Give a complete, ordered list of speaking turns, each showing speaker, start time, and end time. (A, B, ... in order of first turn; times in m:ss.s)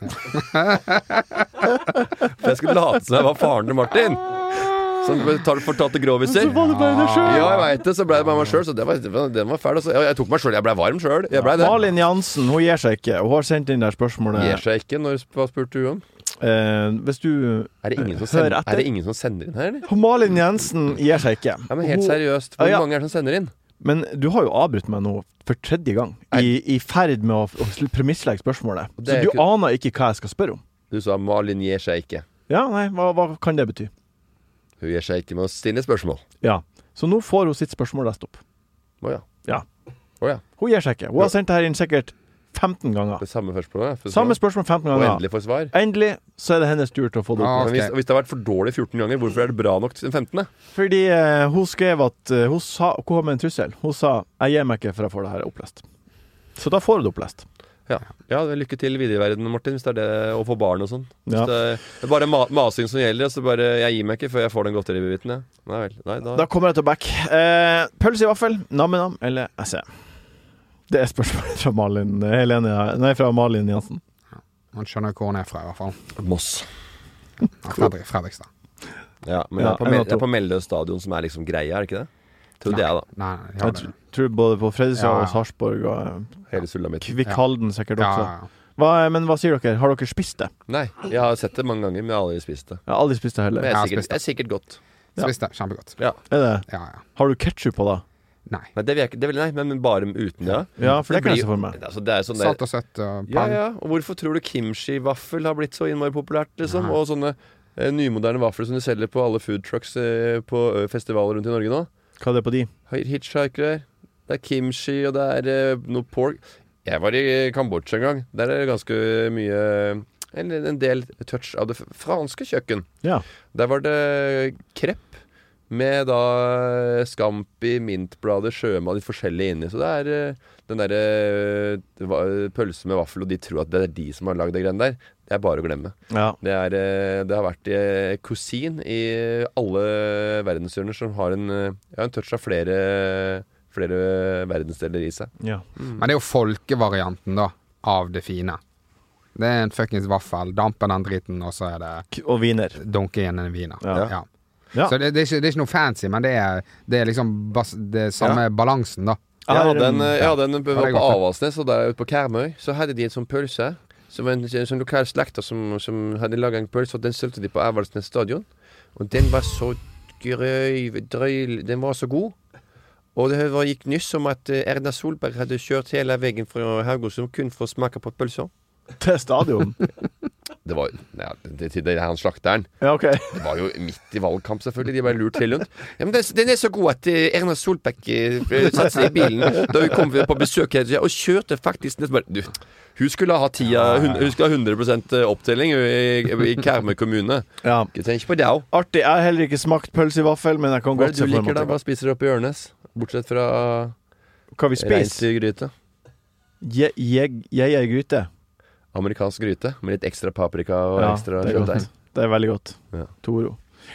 0:00.2-0:01.7 A
0:02.3-0:11.8 B
0:06.4-0:07.7 A
0:11.6-0:14.6 C
0:14.3-0:16.0 B
0:16.4-0:18.9 C
0:17.8-0:19.9 B
0:19.9-0:22.8 C
0:21.7-0:23.5 B
0:23.8-0:30.6 C
0:29.0-0:29.4 B
0:30.9-0:32.2 B
0:32.5-0:33.9 C
0:34.8-0:36.2 B
0:36.4-0:38.4 C
0:39.0-0:39.4 B
0:40.6-0:43.2 C
0:43.2-0:44.4 B
0:44.1-0:47.7 C
0:44.9-0:45.7 B
0:47.4-0:47.9 A
0:47.6-0:50.5 B
0:50.7-0:55.8 C
0:56.6-0:57.4 C
0:57.9-1:06.5 B
1:06.3-1:09.9 C
1:10.9-1:14.0 C
1:14.7-1:16.0 A
1:16.2-1:16.7 B
1:17.6-1:18.5 A
1:19.2-1:22.1 B
1:19.6-1:20.2 C
1:22.6-1:23.1 B
1:22.7-1:23.9 A
1:23.6-1:26.5 C
1:24.9-1:25.4 A
1:26.5-1:27.2 B
1:27.0-1:30.5 C
1:28.0-1:28.5 A
1:30.7-1:32.8 B
1:32.9-1:33.7 C
1:33.5-1:34.8 B
1:33.7-1:34.2 A
1:35.2-1:36.0 A
1:36.3-1:38.0 C
1:36.7-1:37.0 A
1:38.8-1:42.6 B
1:40.8-1:41.8 C
1:42.3-1:43.6 A
1:43.3-1:51.9 B
1:46.7-1:47.0 A
1:52.2-1:52.7 C
1:52.9-2:02.9 B
2:03.5-2:05.2 B
2:05.7-2:26.0 B
2:16.1-2:16.4 C
2:25.9-2:28.6 A
2:29.3-2:32.1 A
2:32.1-2:32.8 C
2:32.8-2:34.2 A
2:33.8-2:34.1 C
2:34.8-2:39.2 A
2:39.5-2:40.2 C
2:39.5-2:52.3 B
2:40.2-2:41.2 A
2:53.1-2:58.5 B
2:59.0-2:59.8 C
3:00.6-3:02.7 B
3:02.8-3:03.4 C
3:03.3-3:18.6 B
3:17.6-3:17.9 C
3:18.7-3:21.7 C
3:20.9-3:23.9 B
3:24.6-3:25.2 C
3:24.8-3:25.7 B
3:26.6-3:28.3 C
3:28.9-3:31.8 B
3:31.0-3:33.6 C